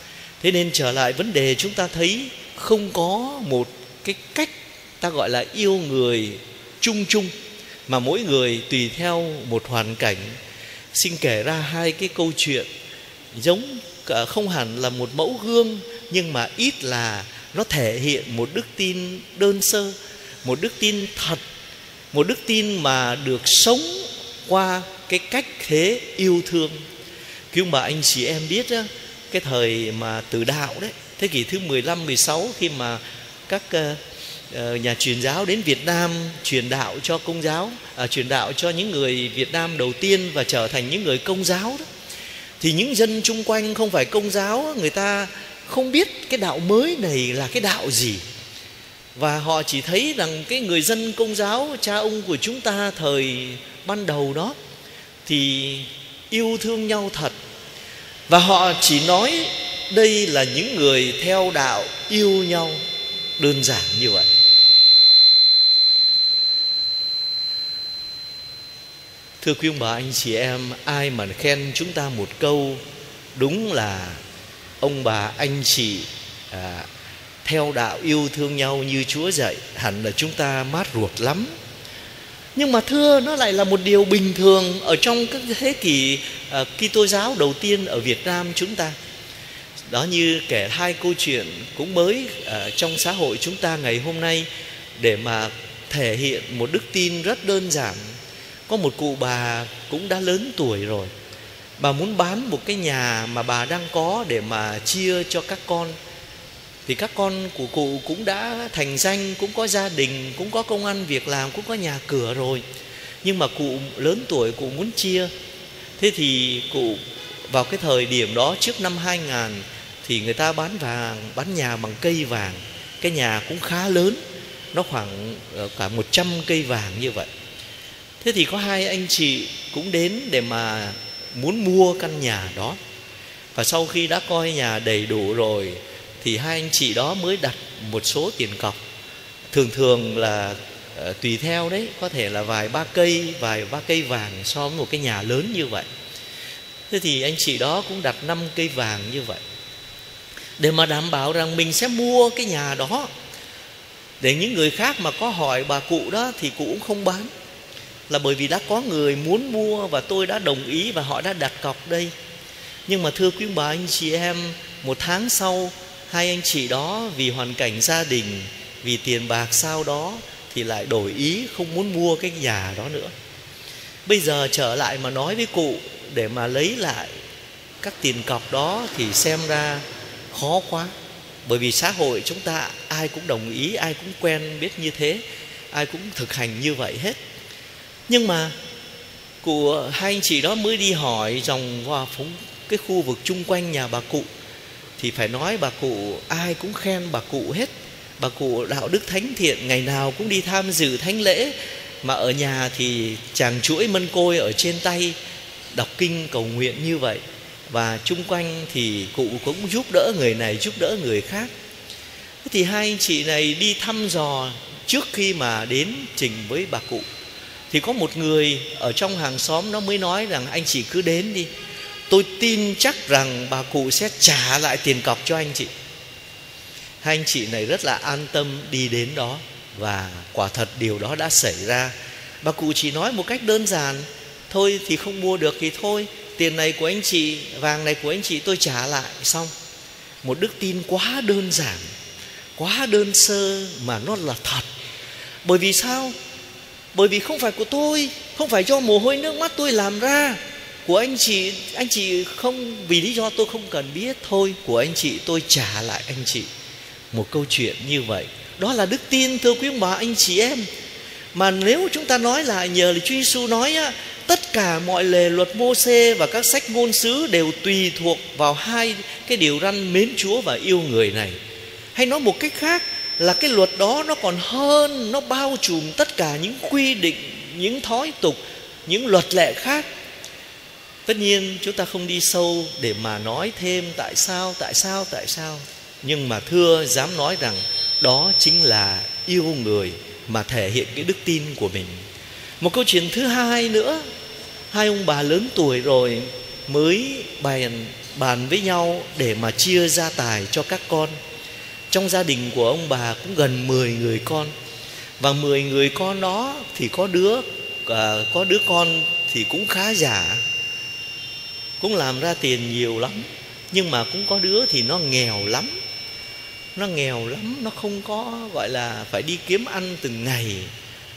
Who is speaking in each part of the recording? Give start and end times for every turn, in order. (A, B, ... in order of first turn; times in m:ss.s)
0:00.4-0:07.3 A
0:07.9-0:10.4 A
0:10.9-0:12.7 A
0:13.3-0:21.4 A
0:22.1-0:26.8 A
0:27.5-0:34.0 A
0:34.5-0:41.8 A
0:42.6-0:48.2 A
0:49.1-0:54.6 A
0:55.2-0:57.4 A
0:58.3-1:02.8 A
1:03.4-1:04.3 A
1:09.4-1:12.8 A
1:13.3-1:14.2 A
1:14.8-1:16.9 A
1:17.4-1:21.5 A
1:22.5-1:28.9 A
1:29.9-1:38.2 A
1:38.7-1:41.1 A
1:41.8-1:46.0 A
1:46.8-1:52.6 A
1:53.2-1:55.3 A
1:56.0-2:04.2 A
2:04.7-2:07.3 A
2:08.2-2:12.8 A
2:13.5-2:18.8 A
2:19.5-2:25.9 A
2:26.9-2:29.4 A
2:30.6-2:33.1 A
2:34.2-2:37.3 A
2:38.1-2:42.1 A
2:42.9-2:53.1 A
2:54.0-2:57.1 A
2:57.8-3:00.9 A
3:01.4-3:07.2 A
3:08.1-3:08.6 A
3:09.4-3:14.3 A
3:15.0-3:25.2 A
3:25.7-3:31.5 A
3:32.4-3:37.0 A
3:37.7-3:41.5 A
3:42.1-3:45.7 A
3:47.0-3:59.5 A
4:00.2-4:01.9 A
4:02.6-4:04.7 A
4:05.4-4:06.1 A
4:06.9-4:16.5 A
4:17.1-4:20.7 A
4:21.3-4:31.4 A
4:31.9-4:39.9 A
4:41.0-4:52.0 A
4:52.6-4:54.0 A
4:54.7-5:01.2 A
5:01.9-5:04.5 A
5:05.2-5:10.4 A
5:11.8-5:15.7 A
5:16.7-5:20.7 A